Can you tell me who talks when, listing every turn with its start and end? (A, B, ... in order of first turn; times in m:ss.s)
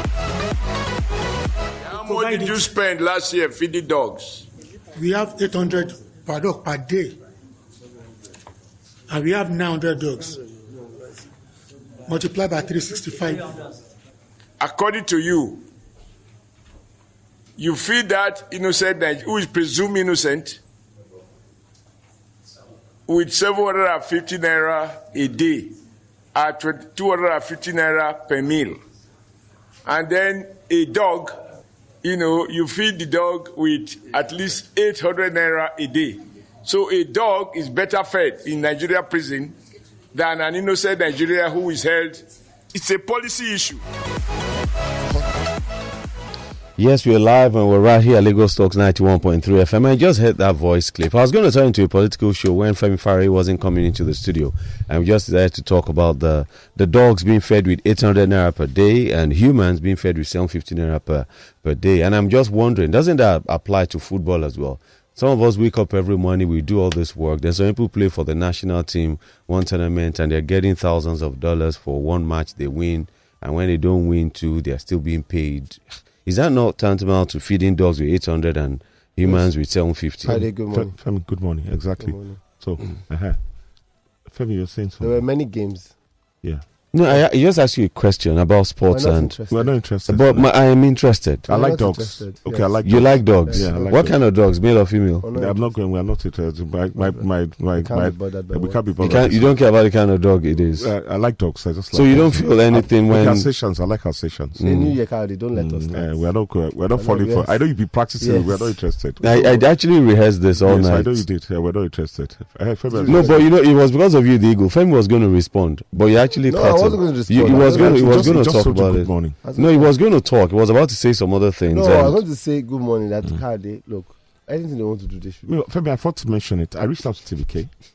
0:01.8-0:04.5 A
0:02.0-0:02.7 B
0:05.0-0:07.2 B
0:09.1-0:10.4 B
0:12.1-0:13.6 B
0:14.6-0:15.6 A
0:17.6-0:20.6 A
0:23.1-0:25.8 A
0:26.3-0:28.8 A
0:29.8-0:31.4 A
0:32.0-0:39.6 A
0:40.1-0:43.8 A
0:46.8-1:20.4 C
1:20.2-1:20.9 D
1:20.7-1:23.4 E
1:22.0-1:22.4 D
1:24.3-1:25.2 E
1:25.0-1:25.9 D
1:26.9-1:29.3 C
1:28.9-1:29.7 D
1:29.5-1:30.5 E
1:30.0-1:31.5 C
1:31.5-1:33.9 D
1:31.5-1:34.2 E
1:32.8-1:35.2 C
1:35.2-1:35.6 D
1:35.3-1:39.5 E
1:37.8-1:38.8 D
1:39.0-1:40.9 C
1:40.8-1:44.7 E
1:41.9-1:43.5 C
1:44.6-1:46.2 D
1:44.6-1:44.9 C
1:45.5-1:49.2 E
1:46.9-1:47.6 D
1:48.2-1:49.6 D
1:49.2-1:51.2 C
1:50.6-1:53.4 E
1:52.9-1:53.4 D
1:53.0-2:02.2 C
1:56.5-1:58.4 D
1:57.4-1:59.4 E
1:59.4-1:59.9 D
2:01.7-2:05.5 D
2:05.4-2:07.7 E